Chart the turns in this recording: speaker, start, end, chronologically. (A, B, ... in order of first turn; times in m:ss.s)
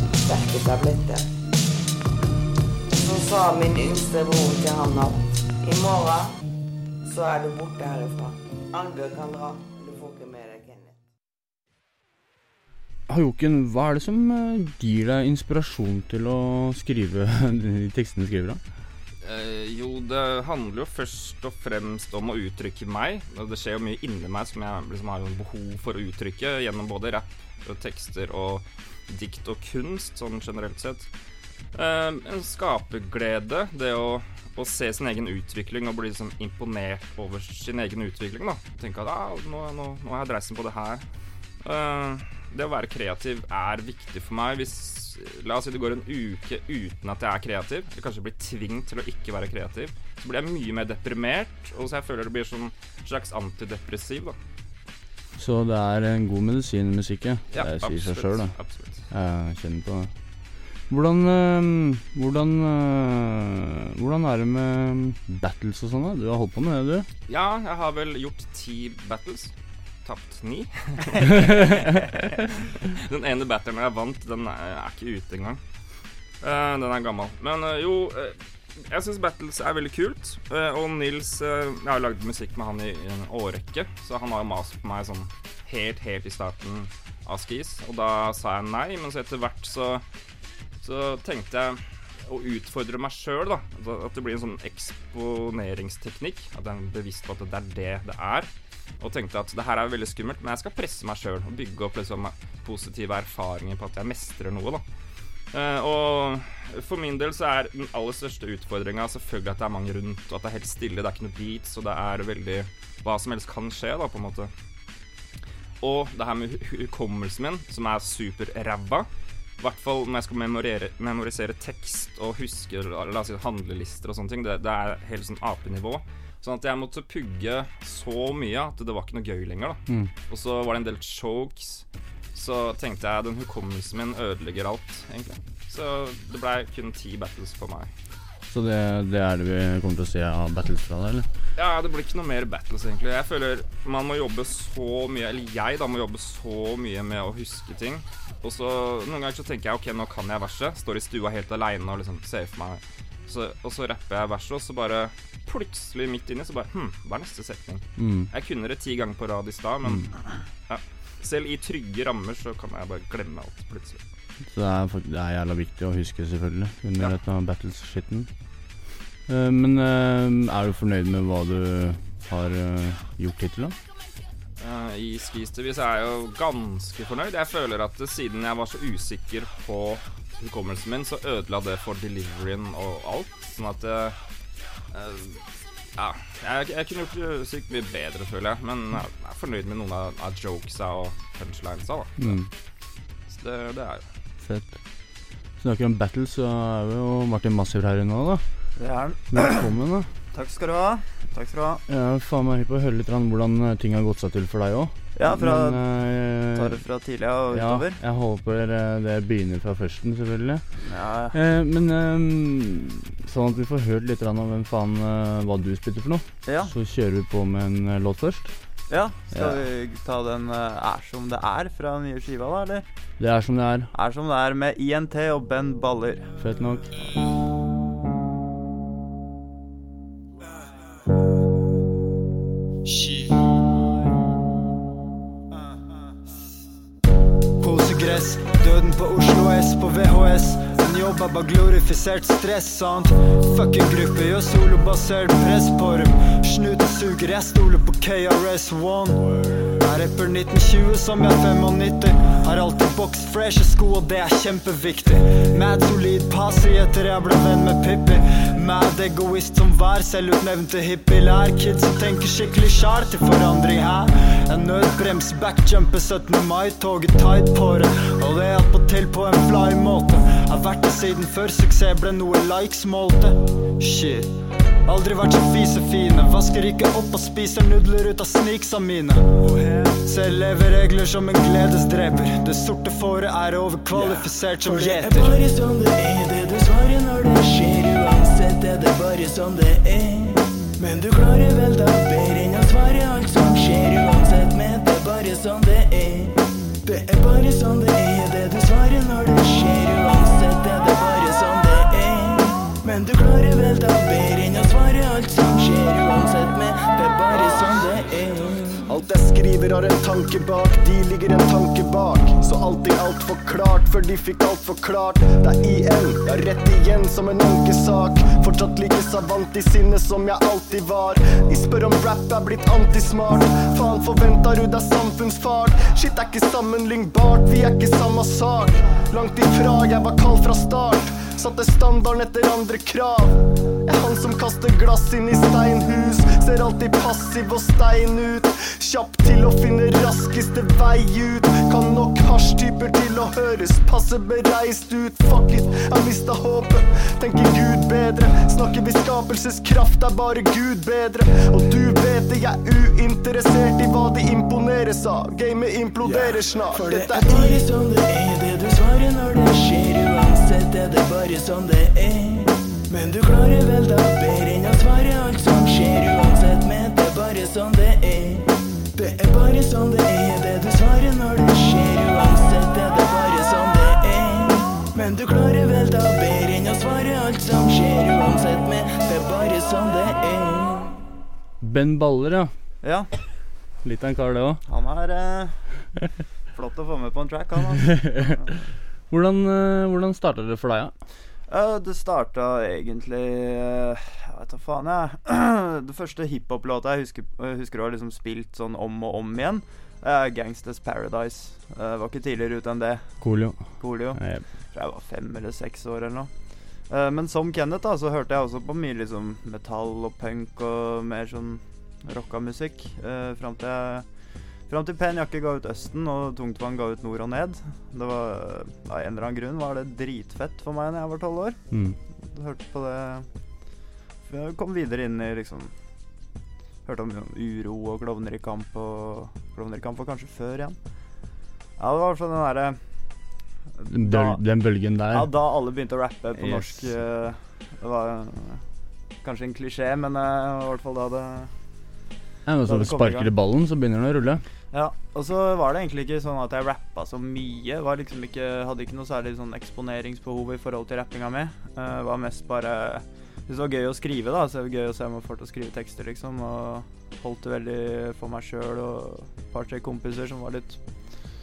0:00.2-0:01.3 A
0:02.9-0:06.3 A
0:07.0-0:11.0 A
0:13.1-0:18.6 B
0:19.2-0:31.1 C
0:31.7-0:41.0 C
0:41.6-0:54.4 C
0:55.4-0:58.5 B
0:57.5-0:59.0 C
0:59.1-1:00.1 B
1:00.9-1:07.1 B
1:07.3-1:15.6 C
1:11.3-1:11.8 B
1:16.4-1:30.0 C
1:30.8-1:44.8 C
1:45.5-1:54.5 C
1:55.8-2:17.9 C
2:18.5-2:21.3 B
2:21.6-2:44.0 C
2:38.0-2:38.3 B
2:44.5-2:48.3 B
2:49.3-2:53.8 B
2:54.6-3:04.2 C
3:04.9-3:05.4 C
3:06.0-3:12.4 C
3:12.2-3:12.5 B
3:13.3-3:14.0 C
3:14.4-3:14.8 B
3:15.6-3:18.4 B
3:18.8-3:19.7 D
3:19.3-3:20.1 B
3:20.3-3:21.8 D
3:21.9-3:26.8 B
3:25.2-3:28.0 D
3:27.5-3:38.5 B
3:30.8-3:31.4 D
3:36.4-3:36.7 D
3:38.9-3:42.8 D
3:39.3-3:39.6 B
3:43.2-3:43.9 B
3:43.9-3:46.3 D
3:46.4-3:46.9 B
3:52.9-3:53.3 E
3:57.6-4:34.3 E
4:34.9-4:45.4 E
4:43.9-5:08.8 F
5:07.3-5:07.8 G
5:08.9-5:33.3 G
5:33.8-5:57.6 G
5:56.0-6:21.0 F
6:21.6-6:22.5 B
6:22.8-6:23.1 D
6:23.8-6:24.6 B
6:24.6-6:25.6 D
6:26.5-6:28.6 D
6:28.0-6:28.3 B
6:29.1-6:30.9 B
6:31.5-7:01.6 D
6:43.2-6:44.4 B
7:01.7-7:02.0 B
7:02.2-7:03.3 D
7:04.2-7:05.7 D
7:06.8-7:10.8 D
7:11.8-7:12.8 D
7:13.8-7:14.4 D
7:13.9-7:15.3 B
7:15.1-7:18.6 D
7:19.2-7:21.5 D
7:22.4-7:24.4 B
7:22.7-7:23.3 D
7:24.7-7:41.1 D